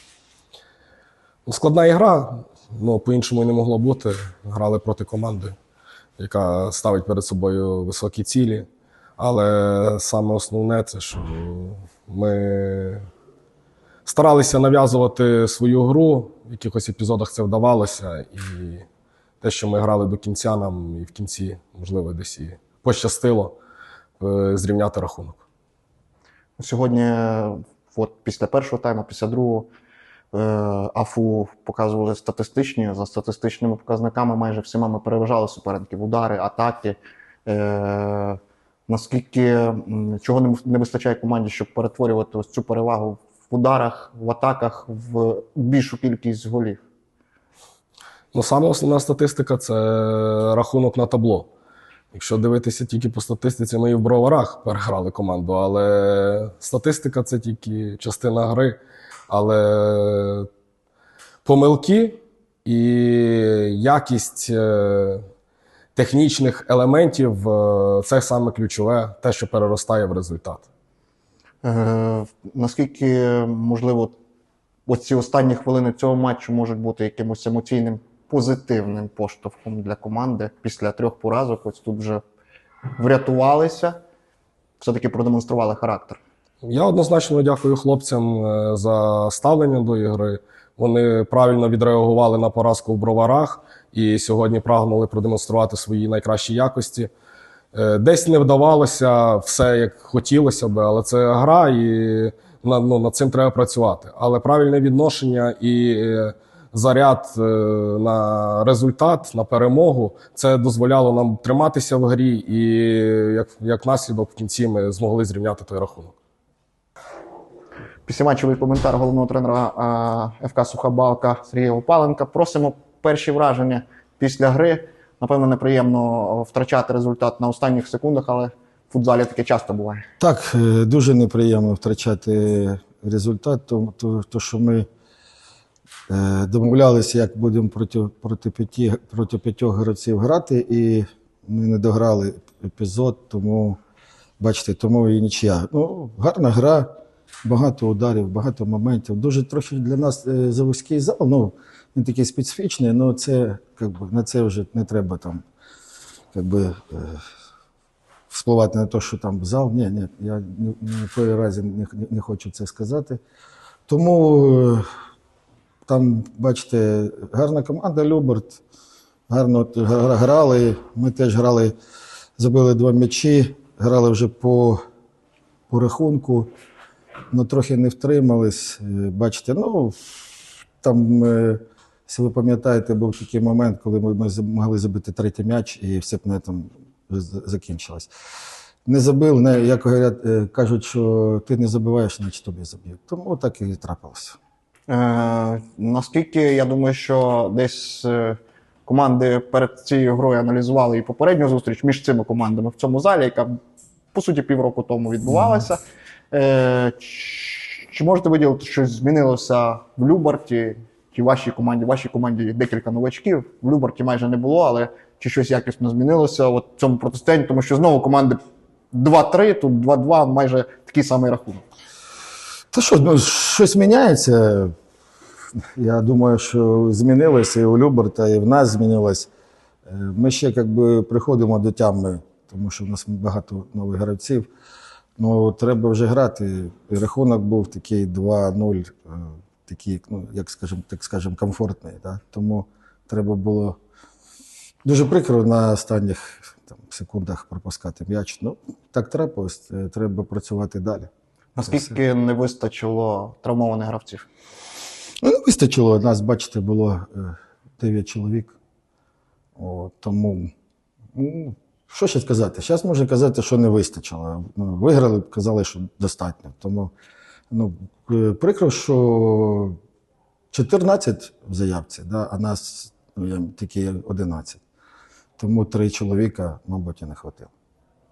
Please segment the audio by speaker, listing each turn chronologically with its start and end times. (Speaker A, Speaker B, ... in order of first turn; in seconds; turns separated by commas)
Speaker A: 1.5-5.5, Speaker A: 6.2-13.1, Speaker A: 14.1-18.9, Speaker A: 19.4-23.6, Speaker A: 24.2-25.4, Speaker B: 26.6-29.7, Speaker B: 30.3-46.8, Speaker A: 48.3-51.5, Speaker A: 52.1-60.5, Speaker A: 61.4-65.2, Speaker A: 66.0-70.7, Speaker B: 71.6-74.2, Speaker B: 74.9-82.2, Speaker B: 82.9-84.0, Speaker B: 84.8-86.2, Speaker A: 86.6-97.1, Speaker A: 97.7-116.2, Speaker B: 118.1-130.0, Speaker C: 130.2-134.8, Speaker C: 136.1-143.8, Speaker C: 144.4-146.9, Speaker C: 147.4-155.4, Speaker C: 156.3-157.2, Speaker C: 158.3-163.2, Speaker C: 163.9-164.8, Speaker C: 165.8-168.6, Speaker C: 169.3-171.8, Speaker C: 172.4-174.8, Speaker C: 175.7-176.5, Speaker C: 177.3-180.0, Speaker C: 180.8-188.1, Speaker C: 188.8-194.4, Speaker B: 194.9-203.6, Speaker B: 204.1-205.8, Speaker B: 206.3-218.4, Speaker B: 218.9-221.7, Speaker C: 222.7-224.7, Speaker C: 225.8-229.3, Speaker C: 229.9-234.5, Speaker C: 235.2-243.8, Speaker C: 244.8-251.1, Speaker B: 251.6-254.3, Speaker C: 255.2-258.6, Speaker C: 259.6-260.5, Speaker C: 261.1-266.9, Speaker C: 267.5-269.8, Speaker C: 270.5-274.6, Speaker C: 275.4-277.5